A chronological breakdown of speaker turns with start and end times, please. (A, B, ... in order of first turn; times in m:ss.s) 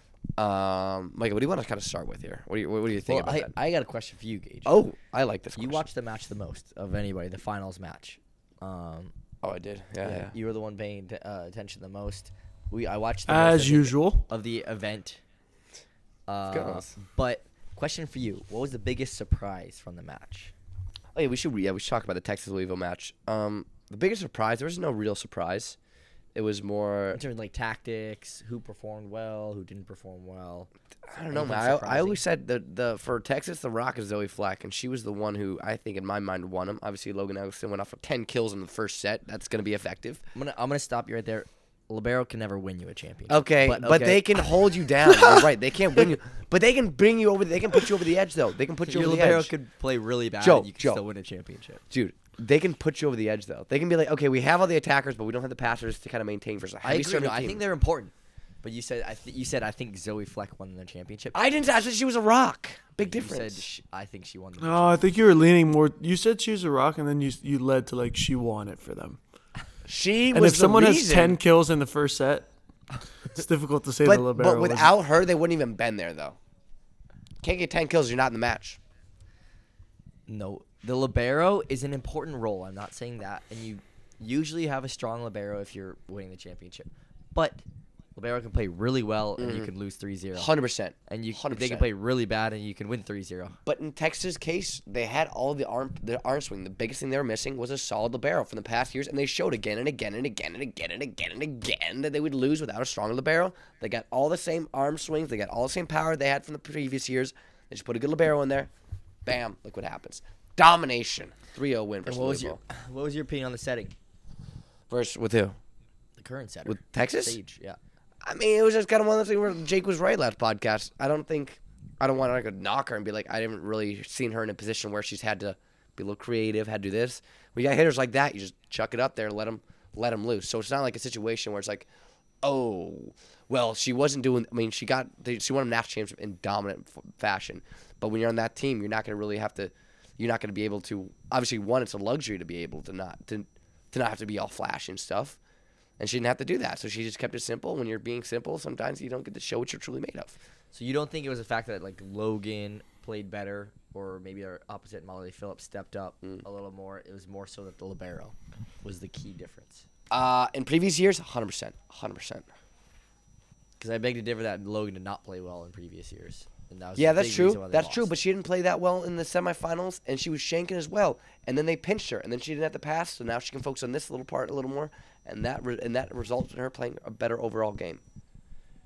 0:00.4-0:03.5 A
0:03.0-0:04.7 B
0:04.6-0:05.9 A
0:05.6-0:09.1 B
0:09.4-0:10.3 A
0:10.0-0:15.2 B
0:13.3-0:14.2 C
0:16.3-0:20.5 B
0:16.5-0:16.9 A
0:21.1-0:25.8 A
0:26.3-0:27.2 A
0:27.1-0:30.7 B
0:31.1-0:40.2 A
0:31.3-0:32.2 B
0:40.3-0:44.4 B
0:43.3-0:49.5 A
0:48.8-0:51.8 B
0:50.4-0:51.0 A
0:51.9-0:57.6 A
0:56.8-1:01.3 B
1:01.3-1:03.6 A
1:03.0-1:05.0 B
1:04.6-1:09.2 C
1:09.8-1:11.4 A
1:10.3-1:12.5 C
1:13.2-1:14.9 C
1:14.0-1:16.4 A
1:17.4-1:18.8 A
1:20.3-1:27.6 B
1:28.2-1:30.5 B
1:29.4-1:29.7 A
1:30.3-1:31.9 A
1:31.1-1:33.6 B
1:33.6-1:48.7 A
1:49.2-1:52.6 A
1:52.0-1:54.0 B
1:54.9-1:55.6 A
1:56.2-1:57.8 B
1:56.6-1:57.4 A
1:58.2-2:11.9 A
2:12.4-2:25.4 A
2:26.0-2:30.4 A
2:30.7-2:39.8 B
2:40.1-2:42.5 A
2:43.8-2:48.1 B
2:47.0-2:58.0 A